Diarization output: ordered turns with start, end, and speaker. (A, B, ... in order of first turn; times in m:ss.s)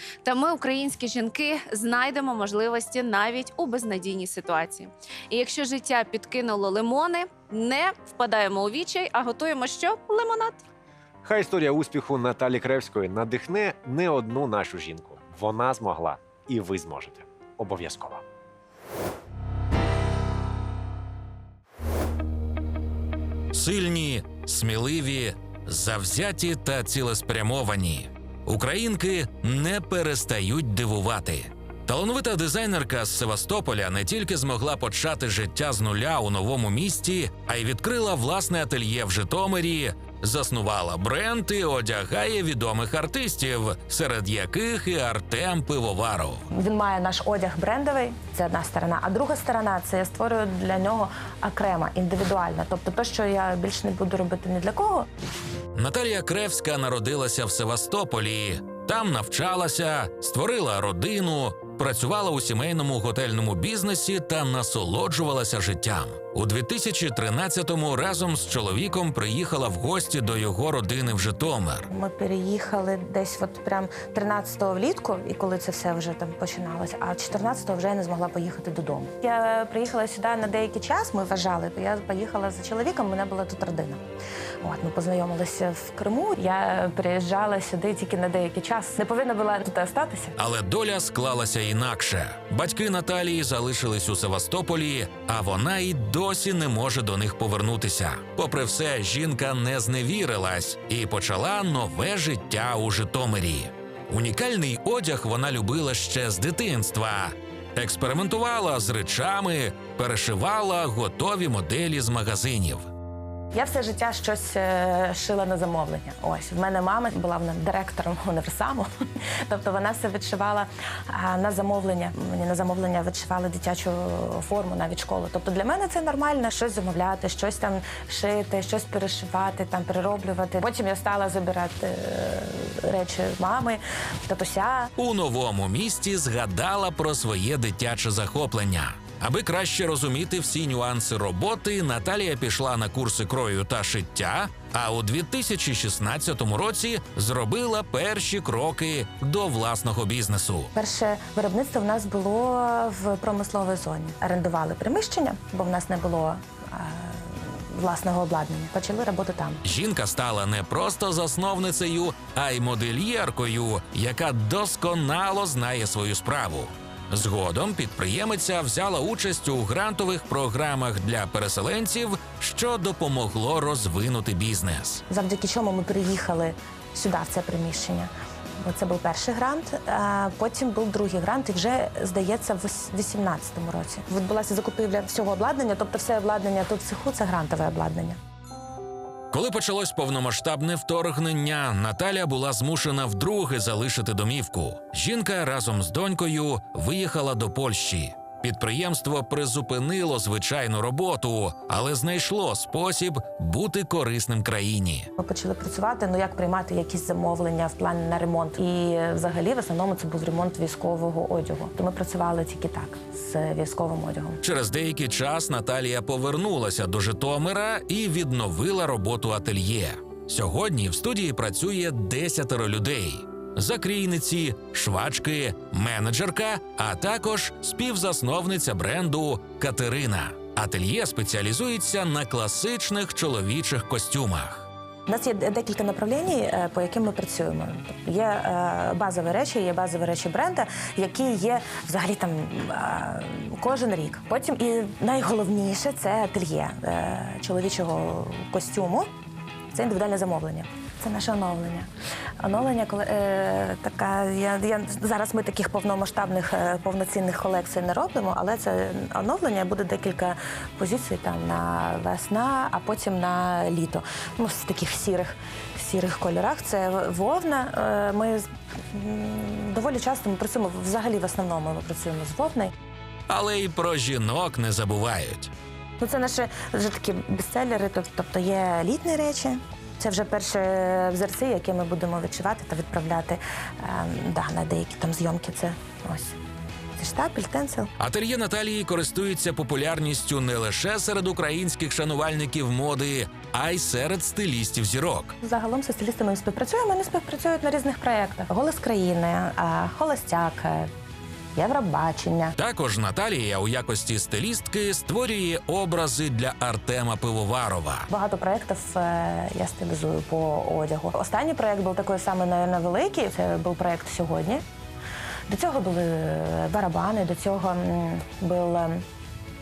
0:00.2-0:10.6 A
0:11.2-0:18.2 B
0:23.5-0:46.4 C
0:46.5-0:55.1 D
0:55.7-1:11.9 C
1:11.9-1:24.0 D
1:24.6-1:30.4 D
1:30.4-1:52.9 C
1:53.5-1:58.8 D
1:59.4-2:14.9 D
2:15.0-2:30.7 C
2:30.7-2:39.6 D
2:39.6-2:55.0 C
2:55.1-3:08.2 D
3:09.3-3:25.1 C
3:25.2-3:34.4 D
3:34.4-3:54.7 C
3:55.1-4:09.1 D
4:09.7-4:11.9 D
4:12.4-4:32.7 D
4:33.3-4:35.5 C
4:36.0-4:46.4 D
4:47.0-4:47.9 D
4:48.0-4:55.3 C
4:55.4-5:00.9 D
5:01.6-5:02.5 D
5:02.6-5:08.1 C
5:08.1-5:14.6 D
5:15.5-5:19.0 D